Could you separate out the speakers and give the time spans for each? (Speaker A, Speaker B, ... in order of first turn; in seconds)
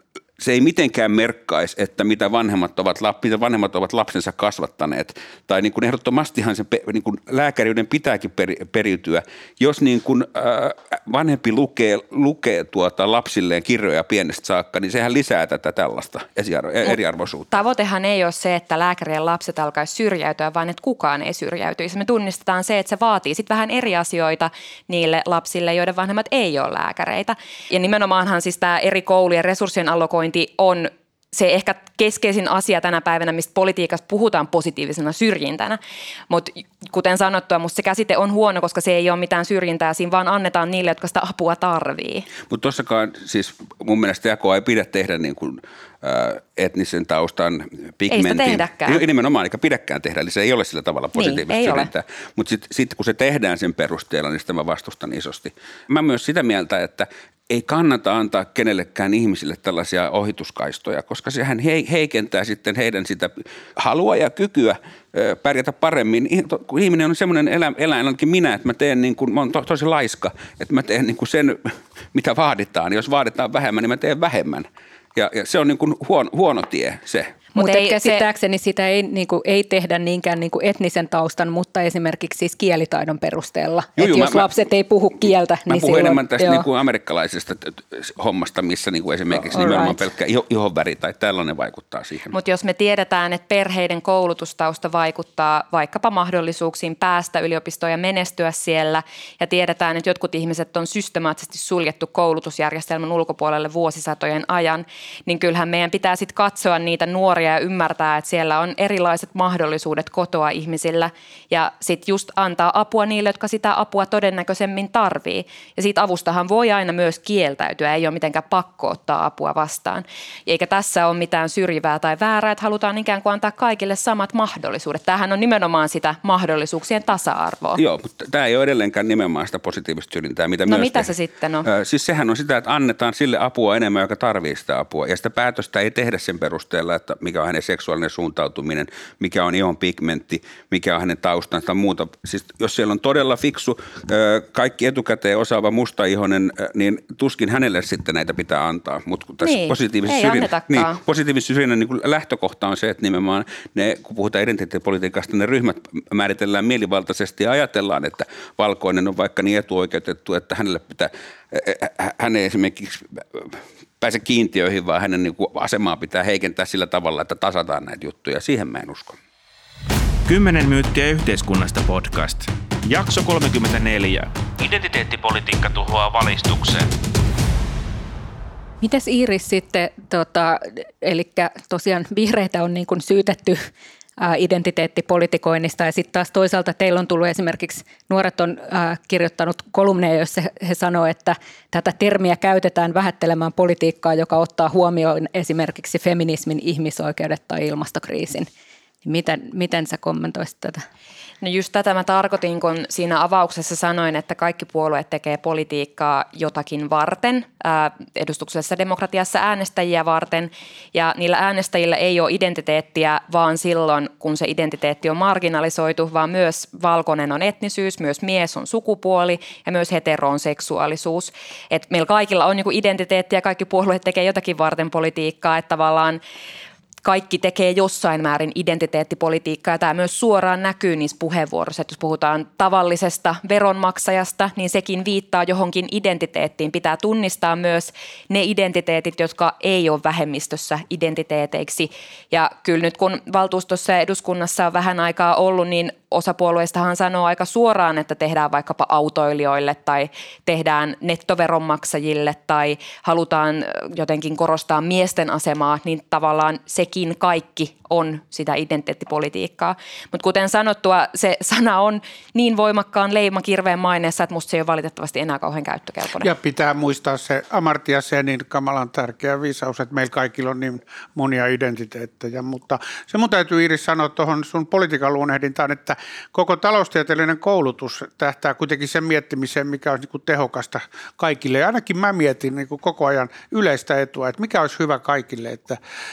Speaker A: 0.4-17.5, 42.5-77.4, 84.0-84.5, 85.7-92.3, 127.8-131.1, 131.6-169.2
Speaker B: 17.5-35.8, 36.3-42.3, 48.1-49.0, 51.1-51.9, 77.5-78.2, 92.3-127.8, 130.7-131.7, 149.4-151.0, 201.4-226.2, 227.0-266.3
Speaker C: 77.5-86.7, 89.4-90.0, 178.8-183.6, 184.2-198.5, 199.0-200.8
Speaker D: 170.2-176.9
Speaker E: 266.2-285.8